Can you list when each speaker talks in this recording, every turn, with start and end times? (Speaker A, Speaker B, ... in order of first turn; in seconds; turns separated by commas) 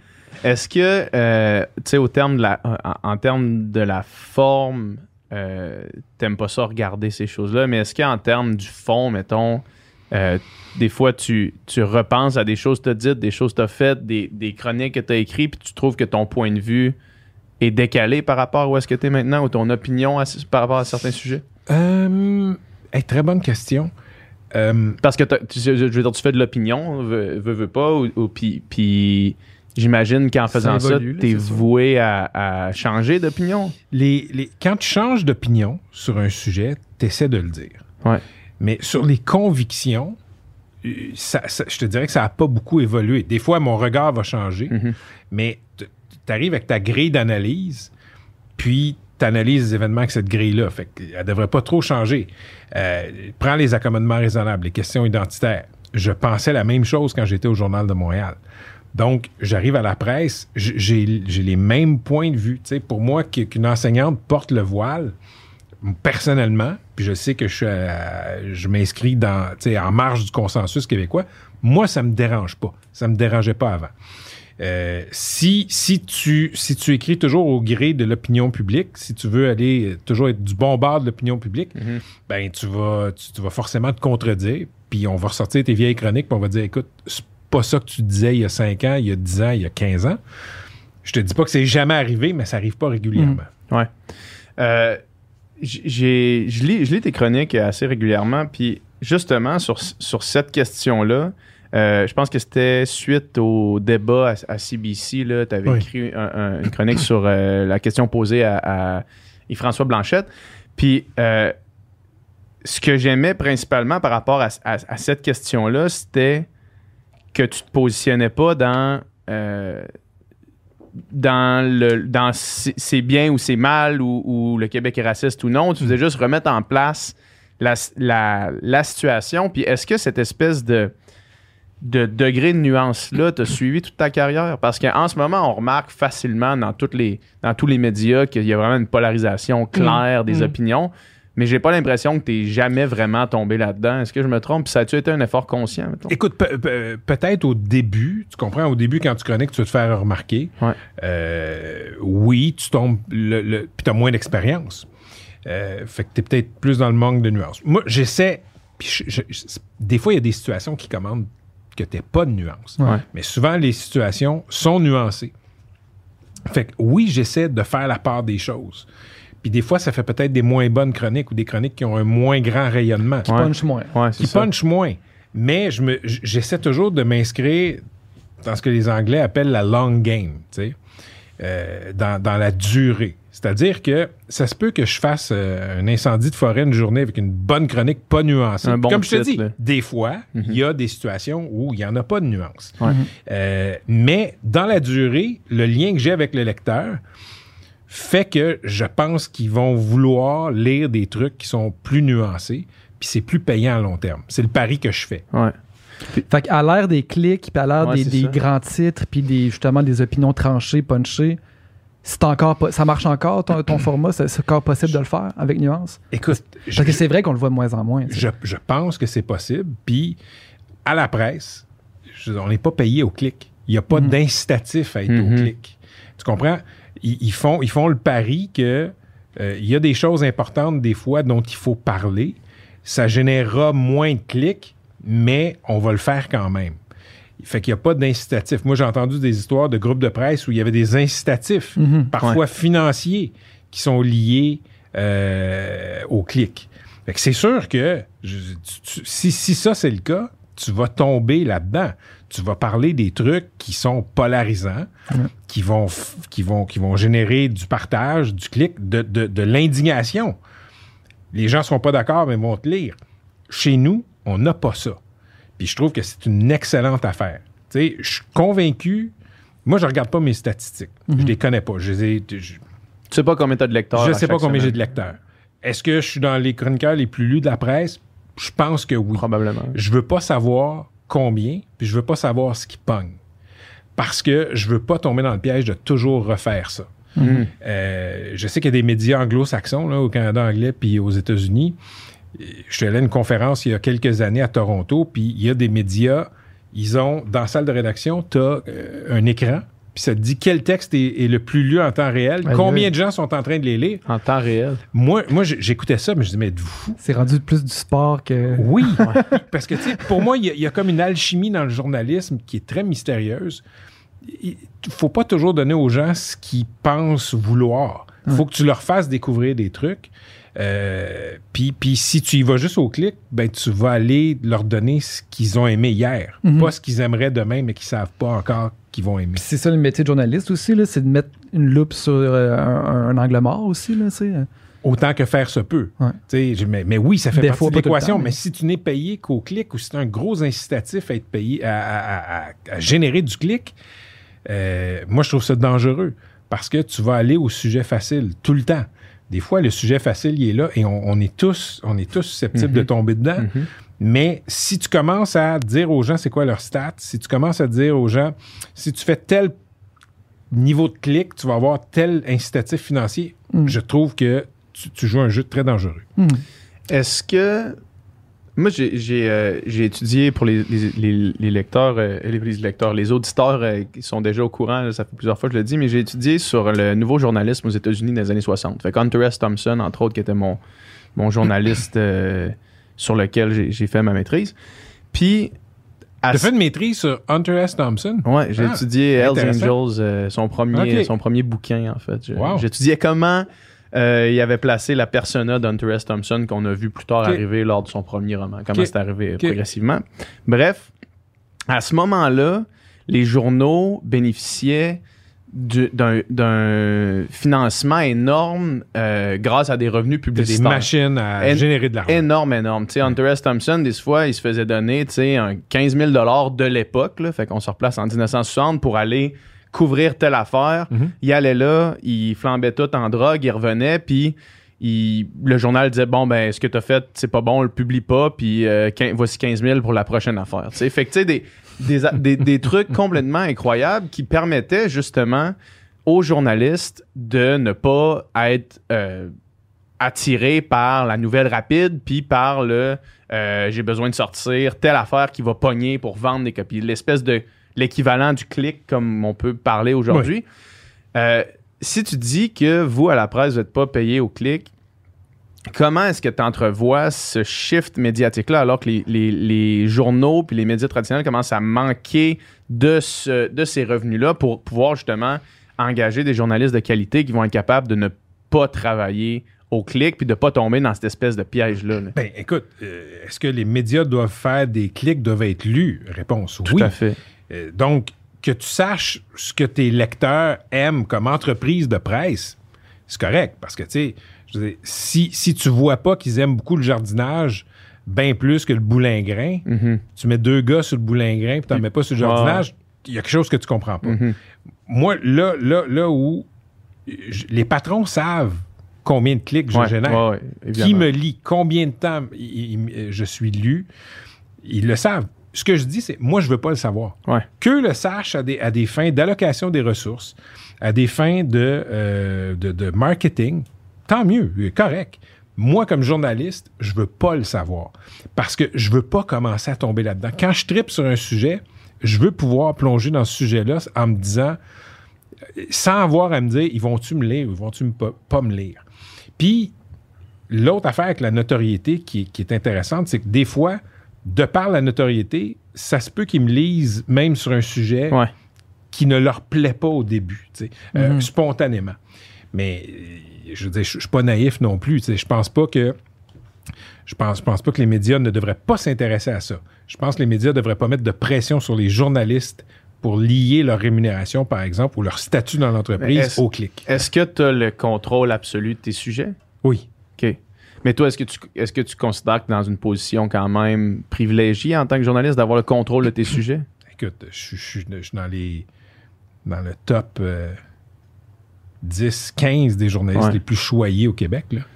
Speaker A: 0.4-17.0, Speaker A: 17.6-21.4, Speaker B: 21.7-23.9, Speaker B: 24.5-25.0, Speaker A: 25.0-33.8, Speaker C: 30.5-31.7, Speaker B: 33.9-37.8, Speaker B: 38.6-40.2, Speaker B: 40.8-44.8, Speaker A: 44.7-45.0, Speaker B: 45.3-47.9, Speaker B: 48.6-58.4, Speaker B: 58.9-65.2, Speaker B: 65.8-73.9, Speaker B: 74.6-90.2, Speaker A: 81.8-82.0, Speaker B: 91.0-93.5, Speaker A: 94.6-95.0, Speaker A: 95.6-111.5, Speaker A: 112.6-116.5, Speaker A: 117.3-119.9, Speaker A: 121.1-130.9, Speaker A: 131.8-146.2, Speaker B: 146.1-154.9, Speaker B: 155.4-165.3, Speaker B: 166.5-168.9, Speaker B: 169.4-173.3, Speaker A: 173.3-174.5, Speaker C: 173.3-173.9, Speaker B: 174.2-177.8, Speaker B: 178.4-180.8, Speaker B: 181.4-197.0, Speaker A: 188.6-189.5, Speaker B: 197.9-205.2, Speaker C: 206.3-211.4, Speaker A: 207.8-208.4, Speaker C: 212.0-218.3, Speaker B: 216.1-217.1, Speaker B: 218.1-220.2, Speaker B: 220.8-236.8, Speaker A: 225.1-225.5, Speaker B: 237.4-254.9, Speaker C: 241.8-242.1, Speaker B: 255.4-260.4, Speaker B: 261.3-263.0, Speaker B: 263.5-265.0, Speaker B: 265.6-269.1, Speaker B: 269.6-272.6, Speaker A: 273.1-274.8, Speaker B: 273.9-283.2, Speaker A: 279.2-279.8, Speaker B: 284.0-286.9, Speaker C: 287.2-287.4, Speaker A: 287.2-287.5, Speaker B: 287.5-291.8, Speaker B: 292.3-304.0, Speaker C: 302.5-302.8, Speaker A: 304.1-304.8, Speaker B: 304.9-307.0, Speaker C: 307.0-309.4, Speaker B: 308.5-313.6, Speaker B: 314.2-329.4, Speaker C: 326.4-326.7, Speaker C: 329.4-334.5, Speaker B: 334.8-343.8, Speaker C: 337.3-338.3, Speaker B: 344.5-359.6, Speaker A: 352.6-353.7, Speaker B: 360.5-366.1, Speaker C: 366.2-366.4, Speaker A: 366.9-367.8, Speaker A: 368.6-380.6, Speaker A: 381.2-384.5, Speaker A: 385.1-385.5, Speaker A: 386.2-386.5, Speaker B: 386.3-389.8, Speaker A: 388.2-400.9, Speaker B: 390.7-391.1, Speaker B: 392.4-392.6, Speaker B: 398.7-399.6, Speaker A: 401.7-405.0, Speaker A: 405.5-410.9, Speaker B: 410.4-412.2, Speaker A: 411.4-435.5, Speaker A: 436.1-439.3, Speaker A: 440.0-450.4, Speaker A: 451.1-454.7, Speaker A: 455.7-472.1, Speaker B: 472.1-477.0, Speaker A: 476.6-477.2, Speaker B: 477.5-482.6, Speaker B: 483.1-494.2, Speaker A: 489.7-490.0, Speaker A: 492.2-492.6, Speaker A: 494.0-494.4, Speaker B: 494.9-496.5, Speaker B: 497.1-500.2, Speaker A: 499.7-501.1, Speaker B: 500.8-503.9, Speaker B: 504.6-524.6, Speaker B: 525.5-528.8, Speaker B: 529.4-529.7, Speaker B: 530.5-538.2, Speaker B: 538.9-542.0, Speaker C: 541.0-541.3, Speaker B: 542.5-546.0, Speaker B: 547.1-556.9, Speaker A: 556.0-559.4, Speaker A: 560.2-566.6, Speaker B: 566.9-568.7, Speaker B: 569.5-570.6, Speaker B: 571.8-574.7